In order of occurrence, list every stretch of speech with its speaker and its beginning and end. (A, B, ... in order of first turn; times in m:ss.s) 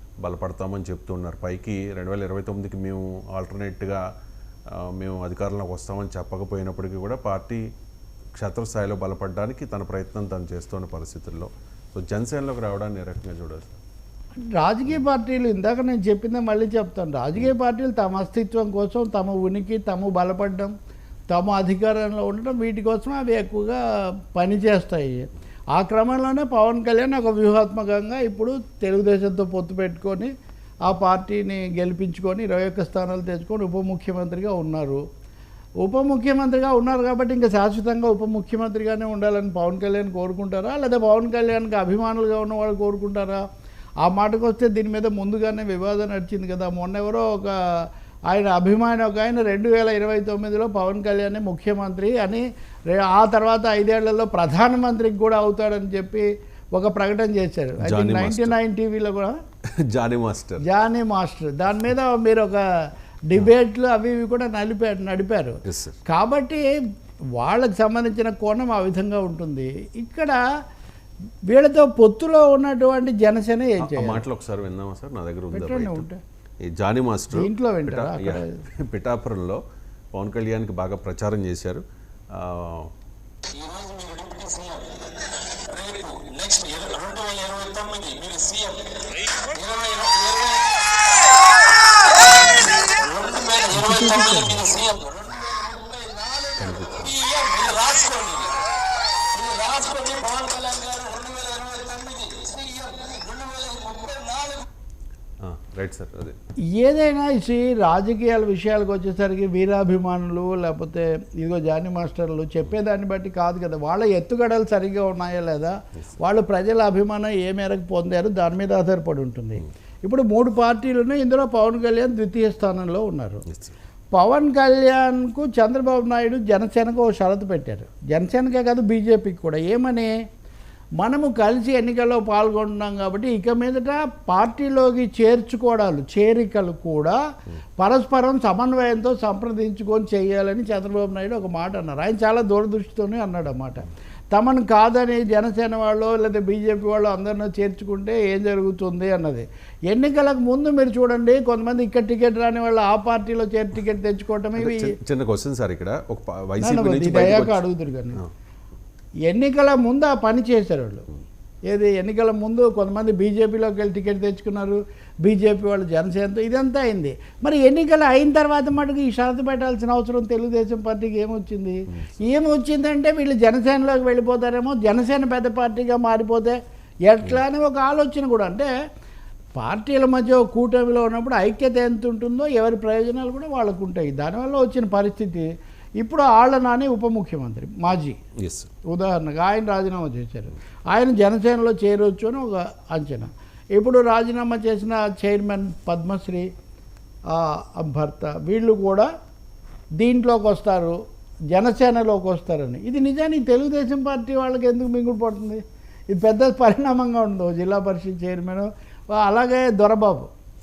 0:00.2-0:04.0 A
0:04.7-0:07.6 A
0:08.4-0:13.8 A
0:14.4-0:20.7 B
0:21.3-0:23.8 B
0:24.3-0:30.3 B
0:30.8-0:35.0 B
0:35.8-0:43.4 B
0:44.0-0:59.4 B
0:57.8-0:58.6 A
0:59.9-1:00.6 A
1:00.6-1:02.6 B
1:03.3-1:06.7 B
1:05.6-1:06.0 A
1:07.4-1:10.4 B
1:11.5-1:14.2 B
1:13.8-1:16.0 A
1:15.5-1:16.2 B
1:16.6-1:19.6 A
1:17.3-1:18.6 B
1:20.1-1:22.9 A
1:23.5-1:24.9 C
1:25.6-1:28.8 C
1:29.4-1:30.7 C
1:33.0-1:33.7 C
1:33.7-1:34.8 B
1:34.7-1:36.5 C
1:36.5-1:37.2 A
1:37.2-1:38.6 C
1:39.3-1:44.6 C
1:45.4-1:46.4 A
1:46.8-2:03.4 B
2:03.5-2:03.7 A
2:04.1-2:10.1 B
2:11.0-2:17.2 B
2:17.8-2:34.9 B
2:34.6-2:37.6 A
2:36.6-2:38.2 B
2:39.3-2:41.1 B
2:41.7-2:58.7 B
2:59.5-3:05.5 B
3:06.0-3:08.2 B
3:08.4-3:08.7 A
3:08.9-3:16.5 B
3:17.3-3:19.1 B
3:20.0-3:21.0 B
3:21.5-3:30.3 B